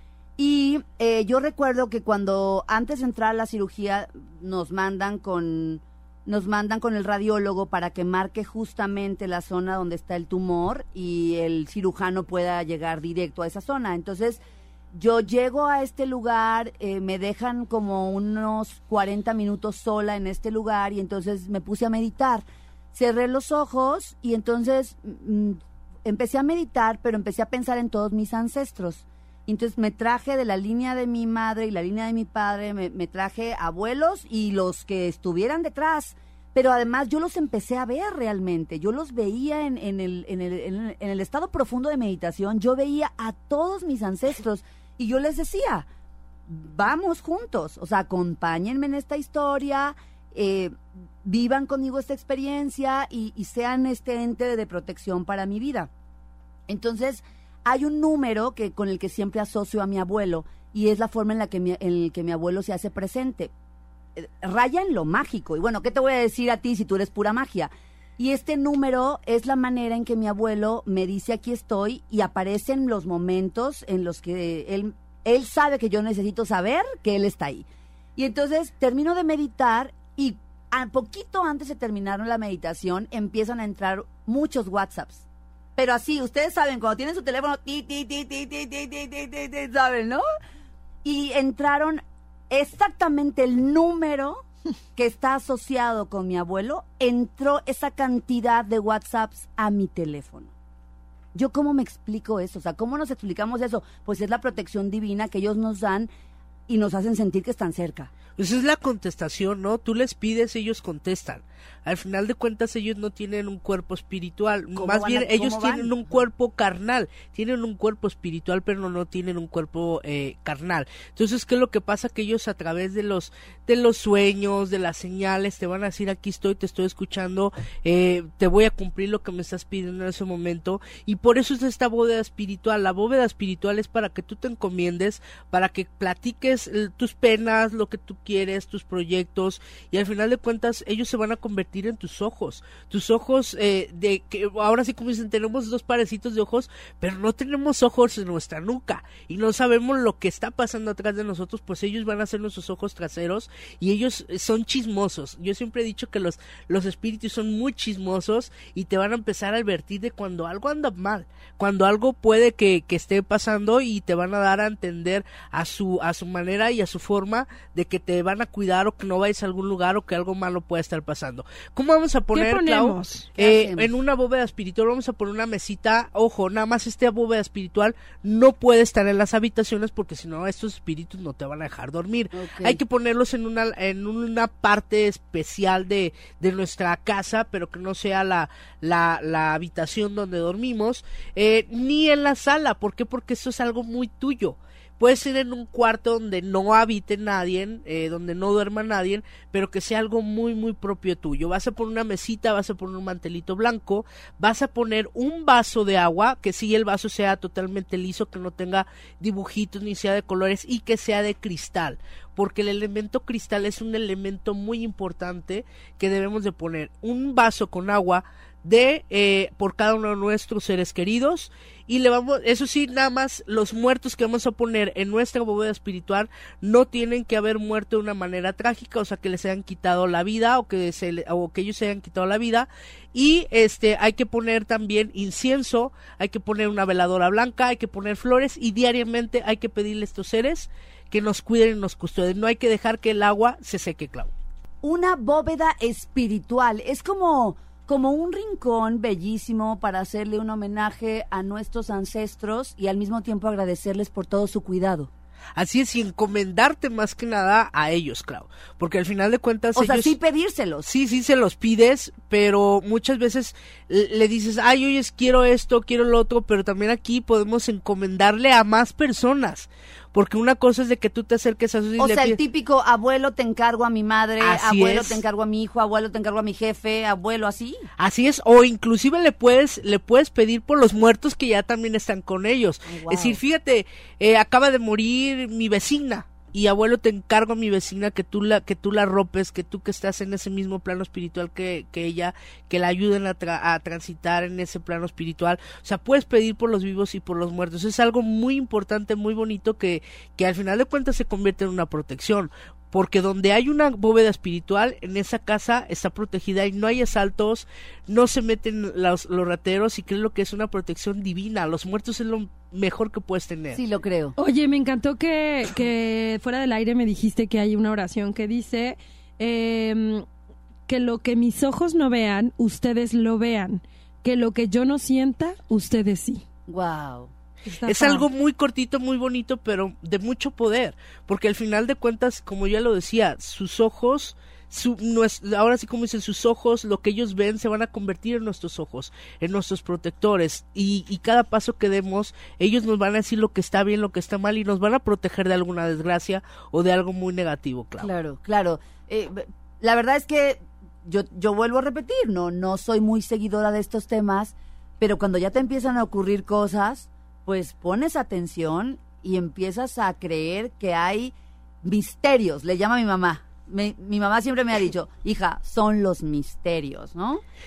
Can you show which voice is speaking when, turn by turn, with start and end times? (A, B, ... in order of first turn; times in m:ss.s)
0:00.4-0:14.4 A
0:14.9-0:45.9 A
0:46.5-0:55.9 A
0:56.7-1:03.5 A
1:04.2-1:25.2 A
1:25.8-1:30.2 A
1:31.0-1:34.4 A
1:35.0-1:40.5 A
1:41.3-1:46.1 A
1:46.7-1:48.1 A
1:48.4-4:04.3 B
1:54.8-1:56.2 A
2:52.3-2:53.2 C
2:53.4-2:53.9 A
3:02.3-3:02.8 A
4:04.8-4:15.1 A
4:15.6-4:20.1 B
4:19.8-4:20.8 A
4:20.8-4:32.4 B
4:32.0-4:37.8 A
4:34.4-4:35.2 B
4:38.0-5:13.8 B
4:42.9-4:43.4 A
5:13.7-5:14.3 A
5:14.4-5:20.2 C
5:20.9-5:26.4 C
5:26.7-5:27.3 A
5:27.6-5:28.3 C
5:27.8-5:48.1 B
5:48.0-6:07.4 A